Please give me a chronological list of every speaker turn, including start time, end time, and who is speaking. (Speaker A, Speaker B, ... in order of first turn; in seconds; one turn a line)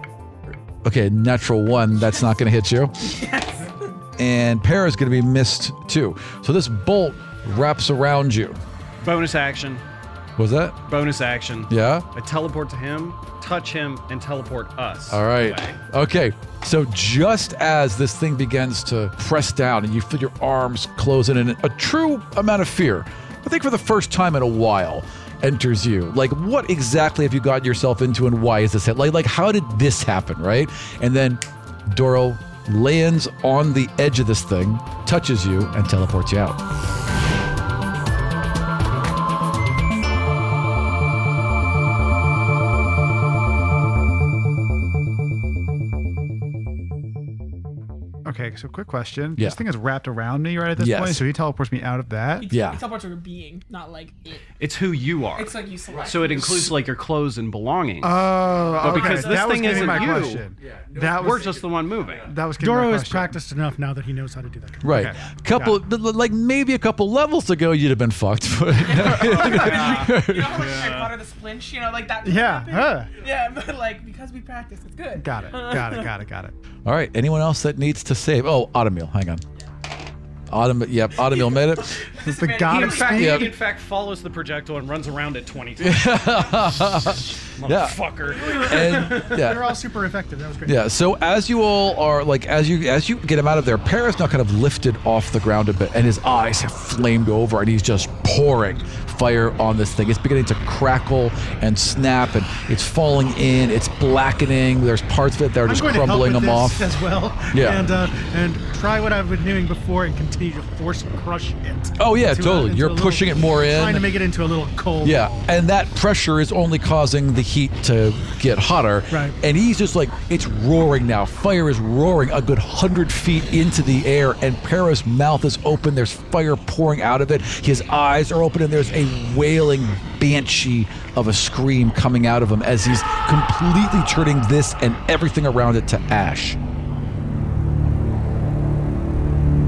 Speaker A: 0.8-2.9
Speaker B: 3.0-3.9
Speaker A: 4.2-8.6
Speaker C: 9.0-9.8
Speaker A: 10.4-10.8
Speaker C: 10.8-15.8
Speaker A: 11.7-12.1
Speaker A: 15.1-36.6
Speaker D: 48.2-52.5
Speaker A: 50.8-51.2
Speaker B: 52.4-54.4
Speaker A: 52.5-52.8
Speaker C: 54.6-60.5
Speaker B: 55.3-56.7
Speaker D: 58.0-61.6
Speaker B: 59.7-60.3
Speaker A: 60.7-62.0
Speaker C: 61.1-62.3
Speaker D: 62.2-63.4
Speaker E: 62.6-65.0
Speaker A: 64.8-70.7
Speaker D: 64.9-65.8
Speaker B: 68.8-76.1
Speaker C: 69.1-71.1
Speaker D: 72.2-73.1
Speaker D: 75.1-76.5
Speaker A: 76.8-79.4
Speaker A: 80.5-82.0
Speaker B: 81.2-83.3
Speaker D: 82.2-83.6
Speaker C: 82.6-86.6
Speaker A: 83.1-83.5
Speaker A: 85.8-89.8
Speaker C: 87.5-89.3
Speaker E: 88.7-90.8
Speaker A: 90.6-106.9
Speaker E: 105.6-115.5
Speaker A: 107.5-107.8
Speaker A: 112.0-114.1
Speaker A: 115.0-136.6
Speaker E: 119.1-119.3